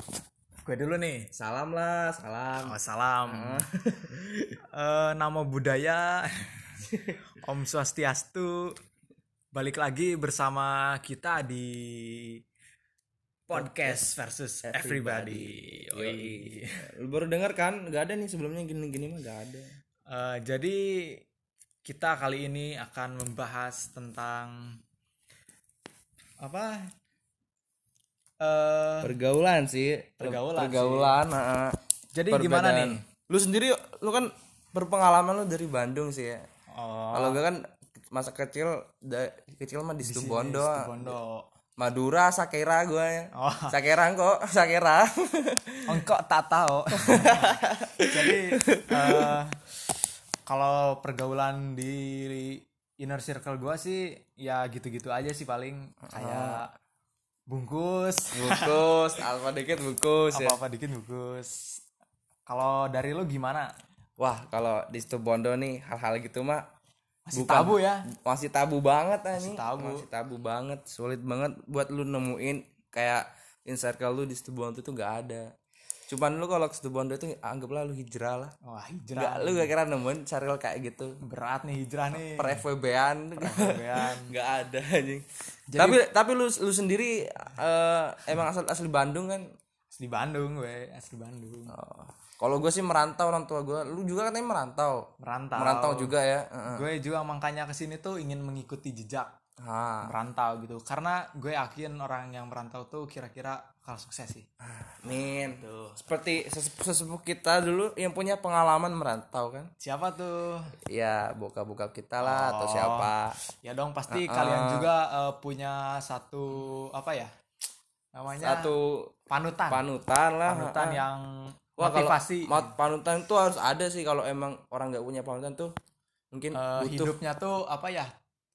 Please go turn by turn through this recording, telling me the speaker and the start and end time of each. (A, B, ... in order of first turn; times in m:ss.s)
0:00.6-0:01.3 A
0:01.3-0:02.8 B
0:02.6-0:03.6 A
0:03.3-0:04.6 B
0:04.7-0:06.6 A
0:06.9-0:07.2 B
0:07.3-0:08.8 A
0:09.6-0:12.4 A
0:13.5-0:16.8 A
0:13.5-0:14.0 B
0:14.6-0:19.7 B
0:20.1-0:21.2 A
0:21.9-0:24.8 A
0:26.4-0:26.9 A
0:28.4-0:29.2 A
0:29.0-0:31.8 B
0:30.2-0:31.2 A
0:32.2-0:33.0 A
0:32.3-0:36.4 B
0:36.7-0:37.4 A
0:37.1-0:37.6 B
0:38.1-0:41.2 B
0:40.0-0:41.4 A
0:41.8-0:46.0 B
0:43.3-0:43.8 A
0:45.9-0:49.6 A
0:47.0-0:49.4 B
0:50.5-0:56.7 A
0:56.1-0:56.6 B
0:57.5-0:58.8 A
0:58.3-1:00.6 B
1:00.3-1:01.8 A
1:02.5-1:03.7 A
1:04.2-1:06.6 B
1:07.3-1:08.1 A
1:07.3-1:15.5 B
1:09.3-1:10.1 A
1:16.1-1:18.5 B
1:18.6-1:19.7 A
1:19.2-1:21.2 B
1:21.2-1:22.6 A
1:22.1-1:25.2 B
1:23.4-1:24.3 A
1:25.7-1:26.0 A
1:25.8-1:29.4 B
1:29.9-1:31.8 A
1:31.7-1:36.9 B
1:35.2-1:36.1 A
1:36.7-1:39.3 A
1:39.6-1:40.1 B
1:40.0-1:44.5 A
1:44.6-1:49.7 B
1:45.3-1:46.0 A
1:49.8-1:50.8 A
1:50.9-1:53.4 B
1:52.2-1:53.1 A
1:53.6-1:57.3 A
1:54.1-1:54.9 B
1:58.2-1:58.7 A
1:58.4-1:59.1 B
1:59.3-1:59.9 A
1:59.7-2:01.0 B
2:00.4-2:02.8 A
2:01.8-2:05.7 B
2:06.3-2:07.2 B
2:06.5-2:08.1 A